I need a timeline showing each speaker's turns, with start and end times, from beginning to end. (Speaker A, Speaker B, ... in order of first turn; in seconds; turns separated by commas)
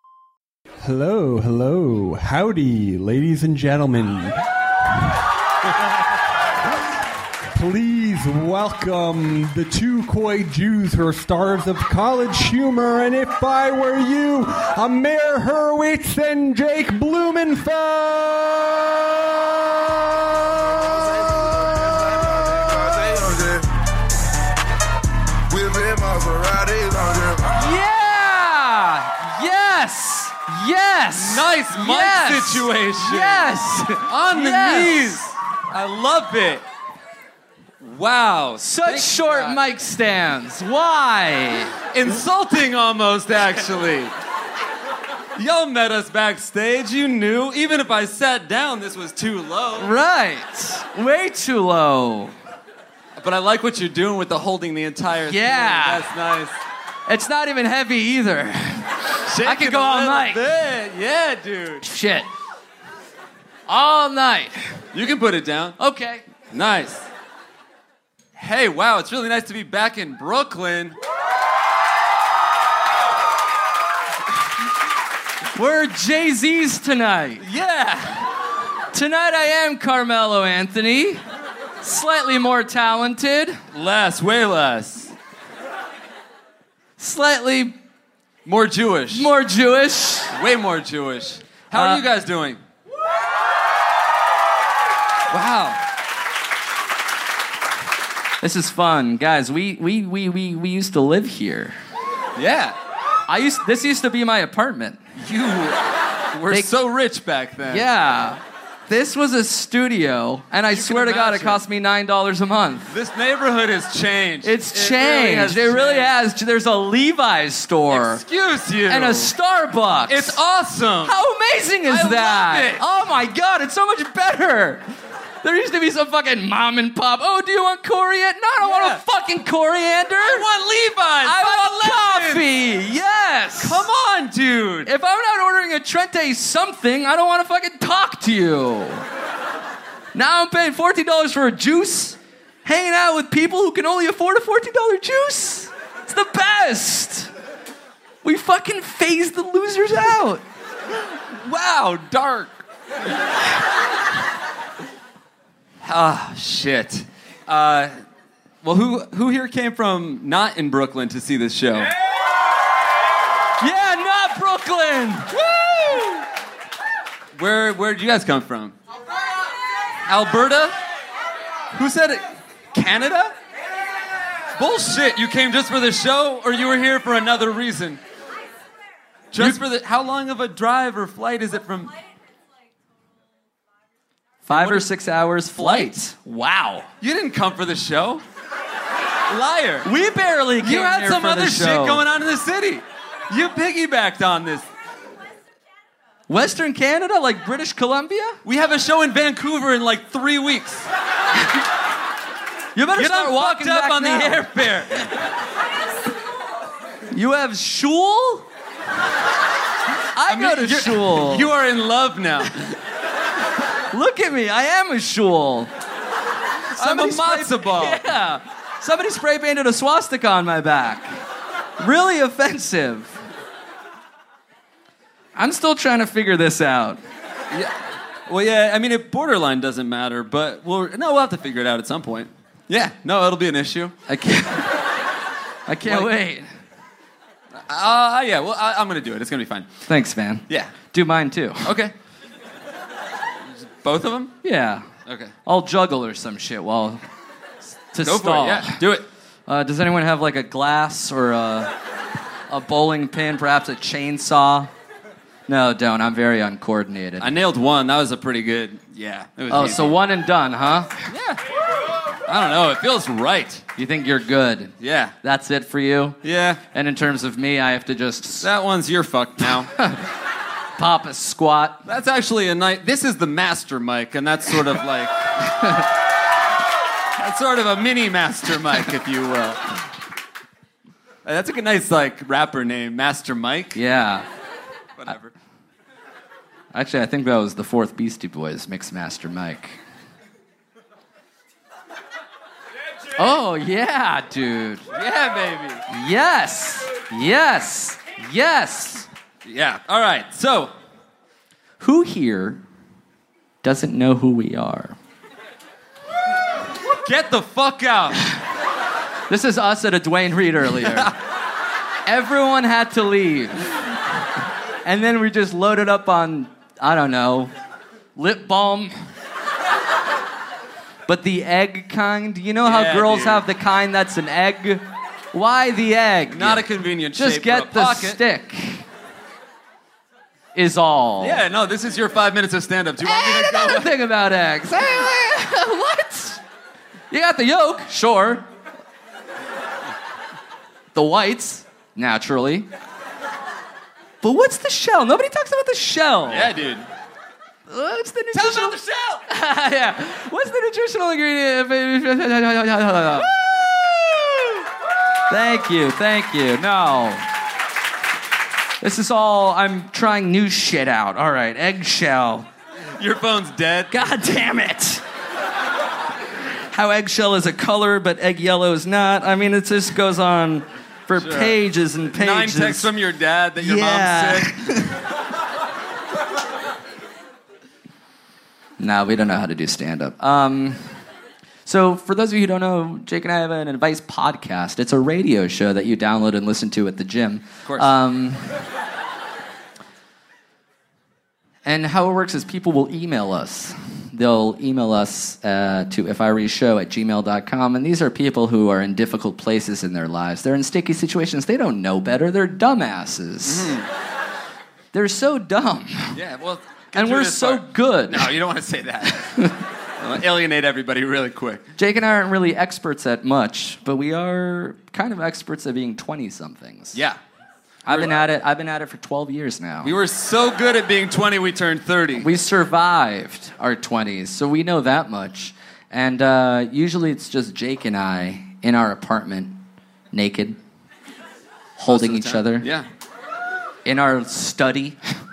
Speaker A: 0.8-4.4, Speaker A: 7.5-23.7, Speaker A: 25.5-27.5, Speaker B: 27.5-35.2, Speaker C: 31.1-33.5, Speaker C: 34.0-36.6, Speaker C: 37.8-39.6, Speaker B: 38.6-41.7, Speaker C: 41.9-44.1, Speaker C: 45.4-49.9, Speaker B: 49.8-52.3, Speaker C: 53.2-56.6, Speaker B: 55.3-56.1, Speaker B: 57.1-60.5, Speaker C: 59.2-61.8, Speaker B: 61.8-62.3, Speaker B: 63.7-64.8, Speaker C: 64.9-65.8, Speaker B: 65.8-66.2, Speaker C: 66.4-67.1, Speaker C: 68.4-71.0, Speaker B: 75.5-77.4, Speaker C: 77.4-78.3, Speaker B: 78.9-81.2, Speaker B: 81.8-83.6, Speaker C: 83.7-85.1, Speaker B: 87.0-87.8, Speaker C: 88.4-89.3, Speaker B: 89.1-90.3, Speaker C: 90.3-92.6, Speaker B: 91.7-92.0, Speaker C: 95.3-95.8, Speaker B: 98.4-101.8, Speaker C: 102.3-102.8, Speaker B: 103.3-105.0, Speaker C: 105.2-107.9, Speaker B: 107.7-112.9, Speaker C: 110.7-111.6, Speaker C: 112.9-116.1, Speaker B: 114.4-118.2, Speaker C: 117.9-119.3, Speaker B: 118.9-120.4, Speaker C: 120.1-121.2, Speaker B: 121.0-124.8, Speaker C: 121.9-122.9, Speaker B: 125.4-130.5, Speaker C: 128.6-129.0, Speaker C: 130.2-132.5, Speaker B: 131.2-133.9, Speaker C: 133.6-134.9, Speaker B: 134.8-139.0, Speaker B: 140.1-147.3, Speaker B: 148.2-150.4, Speaker C: 151.1-152.6, Speaker C: 155.8-157.9, Speaker C: 158.6-161.9, Speaker B: 163.6-165.3, Speaker C: 165.3-166.2, Speaker C: 167.3-168.8, Speaker C: 170.0-170.8, Speaker C: 171.7-173.3, Speaker C: 174.5-178.0, Speaker C: 179.3-182.0, Speaker B: 184.5-186.9, Speaker C: 184.5-184.9, Speaker C: 185.5-185.9, Speaker C: 187.0-188.2, Speaker C: 189.3-189.9, Speaker B: 189.8-192.0, Speaker C: 190.6-194.7, Speaker B: 196.3-198.4, Speaker C: 198.4-200.9, Speaker B: 202.8-204.8, Speaker C: 202.9-205.1, Speaker B: 207.1-208.5, Speaker B: 210.1-211.5, Speaker C: 210.3-212.8, Speaker B: 213.9-215.7, Speaker C: 216.7-218.1, Speaker B: 216.8-221.1, Speaker B: 221.8-223.2, Speaker B: 225.3-227.0, Speaker C: 227.5-233.9, Speaker B: 234.1-234.9, Speaker B: 235.7-236.5, Speaker C: 235.8-236.1, Speaker C: 237.7-239.7, Speaker B: 239.9-241.7, Speaker C: 240.5-240.7, Speaker C: 241.6-241.9, Speaker C: 243.5-244.3, Speaker B: 244.4-244.9, Speaker C: 245.0-245.3, Speaker B: 245.4-247.0, Speaker B: 247.9-248.8, Speaker C: 248.0-249.1, Speaker B: 249.5-251.7, Speaker B: 252.5-254.7, Speaker B: 255.5-257.3, Speaker C: 257.2-260.0, Speaker B: 259.5-260.9, Speaker C: 261.1-261.4, Speaker C: 262.2-263.6, Speaker B: 263.8-266.2, Speaker C: 264.8-265.1, Speaker C: 266.2-266.6, Speaker B: 266.7-268.5, Speaker C: 268.4-269.7, Speaker B: 269.8-270.0, Speaker B: 270.8-271.8, Speaker C: 271.9-275.3, Speaker B: 275.4-275.9, Speaker C: 277.2-279.8, Speaker C: 281.2-283.8, Speaker B: 283.8-284.2, Speaker C: 285.0-285.3, Speaker B: 286.7-289.8, Speaker B: 293.2-294.9, Speaker C: 294.9-295.8, Speaker B: 295.9-299.1, Speaker C: 299.4-300.8, Speaker B: 301.8-302.6, Speaker B: 303.6-304.9, Speaker C: 306.9-308.2, Speaker B: 309.3-311.1, Speaker C: 310.8-311.1, Speaker B: 312.1-313.8, Speaker B: 314.9-317.5, Speaker B: 318.1-319.0, Speaker B: 321.1-328.9, Speaker C: 322.6-323.4, Speaker C: 326.3-328.2, Speaker B: 330.6-331.4, Speaker C: 331.2-333.9, Speaker B: 333.0-336.4, Speaker B: 337.1-338.4, Speaker B: 340.9-342.7, Speaker B: 344.2-346.6, Speaker C: 346.3-346.9, Speaker B: 347.7-348.8, Speaker C: 348.3-349.2, Speaker B: 349.3-354.6, Speaker B: 355.3-357.3, Speaker B: 358.8-362.5, Speaker C: 363.0-364.0, Speaker B: 363.9-365.0, Speaker B: 366.7-372.9, Speaker C: 371.1-371.6, Speaker C: 372.1-374.7, Speaker B: 373.6-375.0, Speaker B: 378.8-380.9, Speaker B: 381.6-388.6, Speaker C: 387.6-387.9, Speaker B: 391.6-403.7, Speaker C: 403.4-403.9, Speaker B: 404.9-406.2, Speaker C: 406.1-411.6, Speaker B: 406.9-408.3, Speaker B: 409.3-409.6, Speaker B: 411.8-417.0, Speaker C: 416.9-417.2, Speaker B: 417.9-419.9, Speaker C: 417.9-418.1, Speaker C: 419.8-422.3, Speaker B: 422.1-430.6, Speaker B: 431.8-432.7, Speaker C: 431.9-432.9, Speaker B: 433.9-435.0